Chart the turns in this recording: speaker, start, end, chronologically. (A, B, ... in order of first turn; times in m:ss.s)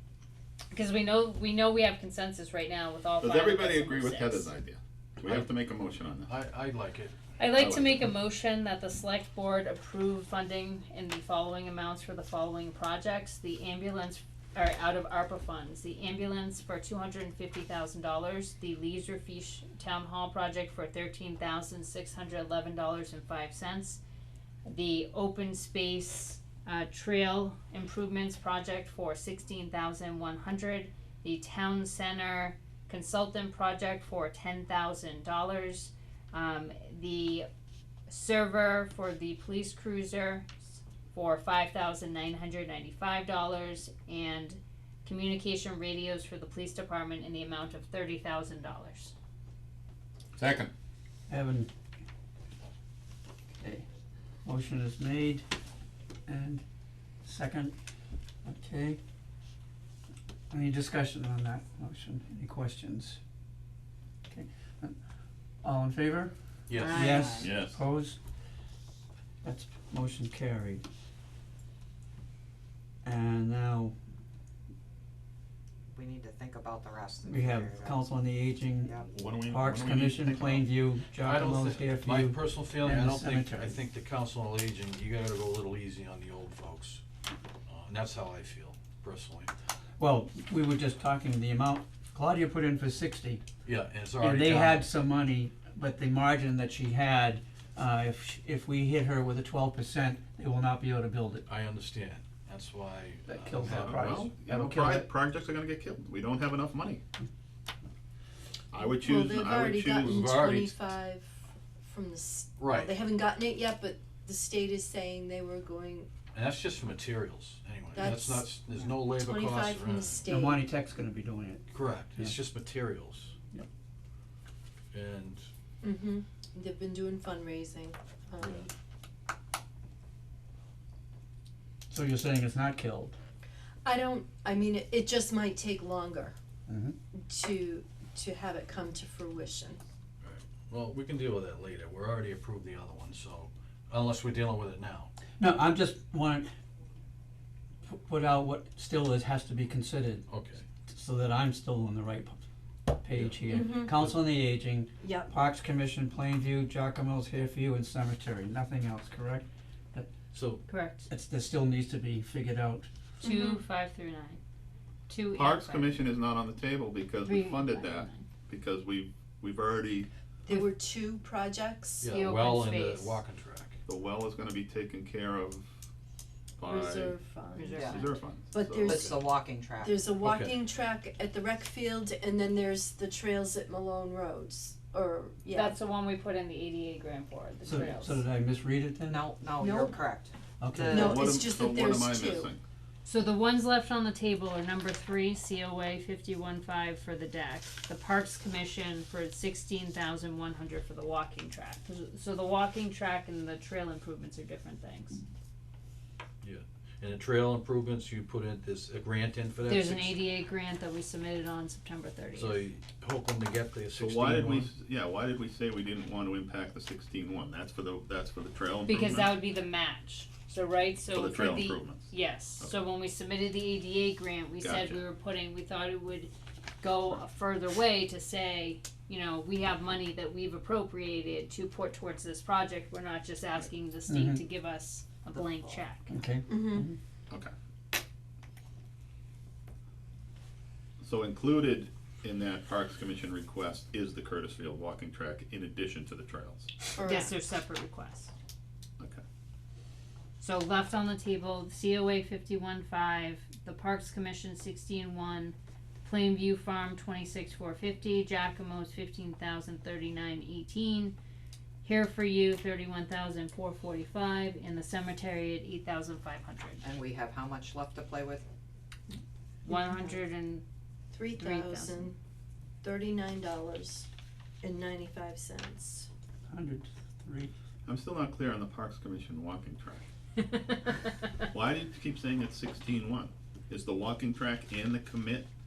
0:00.7-0:04.5 A
0:03.2-0:06.3 B
0:05.2-0:05.5 C
0:06.3-0:07.2 C
0:07.4-0:24.0 A
0:07.5-0:08.1 B
0:24.6-0:37.5 A
0:38.1-0:49.1 A
0:50.4-0:50.7 B
0:51.3-0:51.7 D
0:53.6-0:53.8 D
0:54.4-0:55.4 D
0:56.3-0:56.6 D
0:57.2-0:57.7 D
0:58.4-0:59.0 D
1:00.5-1:03.2 D
1:04.3-1:04.9 D
1:05.6-1:08.2 D
1:06.7-1:07.0 C
1:06.8-1:07.5 A
1:06.9-1:07.5 E
1:07.4-1:07.8 B
1:09.4-1:10.8 D
1:13.0-1:13.9 D
1:15.9-1:19.1 E
1:17.2-1:23.8 D
1:19.1-1:20.7 B
1:21.2-1:27.0 C
1:27.7-1:29.5 C
1:30.0-1:33.4 D
1:33.6-1:34.9 C
1:34.2-1:41.5 D
1:41.5-1:44.3 C
1:43.3-1:45.1 D
1:43.6-1:47.0 B
1:48.7-1:50.3 B
1:48.8-1:56.1 F
1:50.1-1:50.8 C
1:52.6-1:53.0 C
1:56.3-2:00.2 C
1:57.9-2:00.7 F
2:00.2-2:02.4 D
2:01.7-2:03.3 C
2:04.9-2:05.4 C
2:05.8-2:08.7 F
2:08.4-2:08.6 C
2:11.9-2:13.1 D
2:13.8-2:16.3 F
2:16.7-2:17.0 D
2:17.1-2:19.8 F
2:20.2-2:25.1 C
2:25.4-2:26.5 D
2:27.8-2:30.3 D
2:30.3-2:30.6 C
2:30.9-2:40.1 D
2:33.1-2:34.1 C
2:33.5-2:34.0 F
2:35.0-2:35.3 F
2:40.3-2:40.6 C
2:40.7-2:41.1 A
2:41.1-2:42.9 D
2:43.2-2:44.4 A
2:43.2-2:43.6 F
2:45.1-2:46.0 A
2:45.3-2:50.1 B
2:47.2-2:48.2 A
2:50.4-2:52.2 F
2:52.0-2:53.8 C
2:52.1-2:53.2 A
2:53.9-2:55.7 B
2:56.6-2:57.1 B
2:56.6-2:59.2 F
2:57.6-2:58.1 A
2:57.7-2:58.0 E
2:57.8-2:59.0 B
2:58.8-2:59.2 C
2:58.9-3:00.0 E
2:59.8-3:05.8 F
3:00.2-3:00.5 C
3:05.5-3:08.2 A
3:07.6-3:09.3 D
3:09.1-3:11.1 E
3:09.6-3:10.0 F
3:10.6-3:11.2 D
3:10.9-3:12.5 F
3:11.0-3:12.6 B
3:13.0-3:25.2 A
3:26.4-3:30.2 C
3:29.7-3:32.7 A
3:32.3-3:34.7 C
3:34.0-3:39.4 B
3:38.8-3:56.1 A
3:41.1-3:42.7 B
3:44.6-3:45.0 B
3:54.1-3:54.4 D
3:55.3-3:55.8 E
3:56.1-3:57.0 D
3:56.5-3:56.8 F
4:01.0-4:06.7 B
4:07.0-4:07.4 F
4:07.0-4:08.3 A
4:10.4-4:21.1 A
4:21.8-4:26.8 A
4:26.8-4:28.4 E
4:29.6-4:30.6 A
4:29.7-4:30.1 F
4:31.1-4:32.2 F
4:31.4-4:32.1 A
4:32.8-4:34.1 F
4:34.6-4:36.1 F
4:36.5-4:37.5 D
4:37.8-4:40.0 B
4:40.5-4:41.3 A
4:41.5-4:45.5 B